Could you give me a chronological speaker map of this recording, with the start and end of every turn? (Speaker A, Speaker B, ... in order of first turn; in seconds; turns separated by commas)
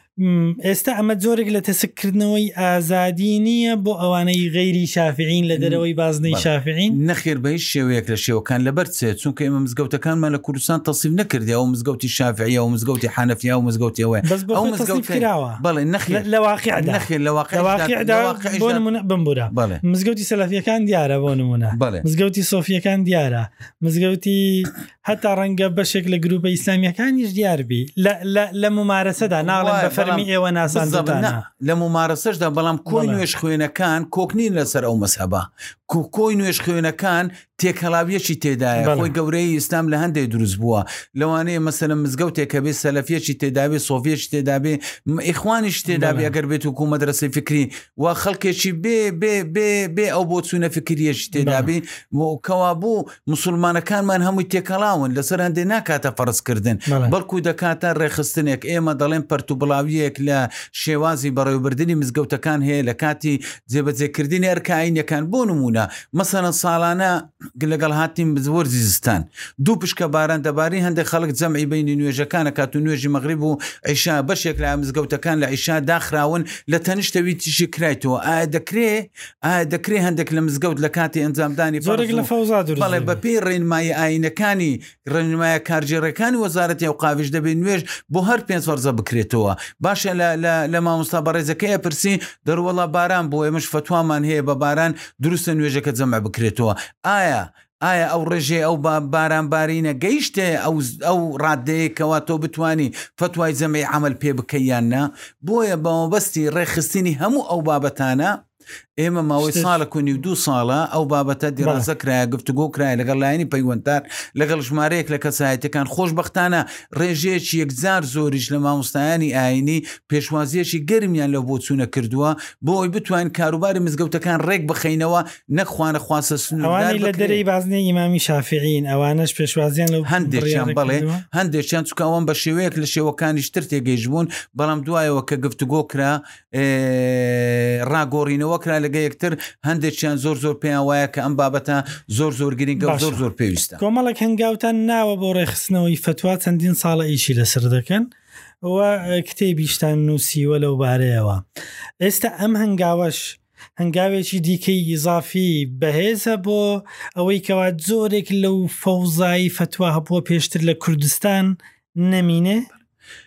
Speaker A: 0.2-7.0, Speaker B: 5.5-18.9, Speaker A: 14.2-31.4, Speaker B: 19.5-19.8, Speaker B: 21.7-22.1, Speaker B: 29.3-108.4, Speaker A: 32.9-33.2, Speaker A: 38.8-39.1, Speaker A: 45.9-46.3, Speaker A: 51.4-51.7, Speaker A: 56.9-57.1, Speaker A: 81.8-83.2, Speaker B: 109.0-127.4, Speaker A: 109.4-109.8, Speaker A: 111.6-111.9, Speaker A: 126.6-131.2, Speaker B: 130.0-143.8, Speaker A: 142.8-143.2, Speaker A: 143.8-148.1, Speaker A: 148.6-151.4, Speaker A: 152.0-162.7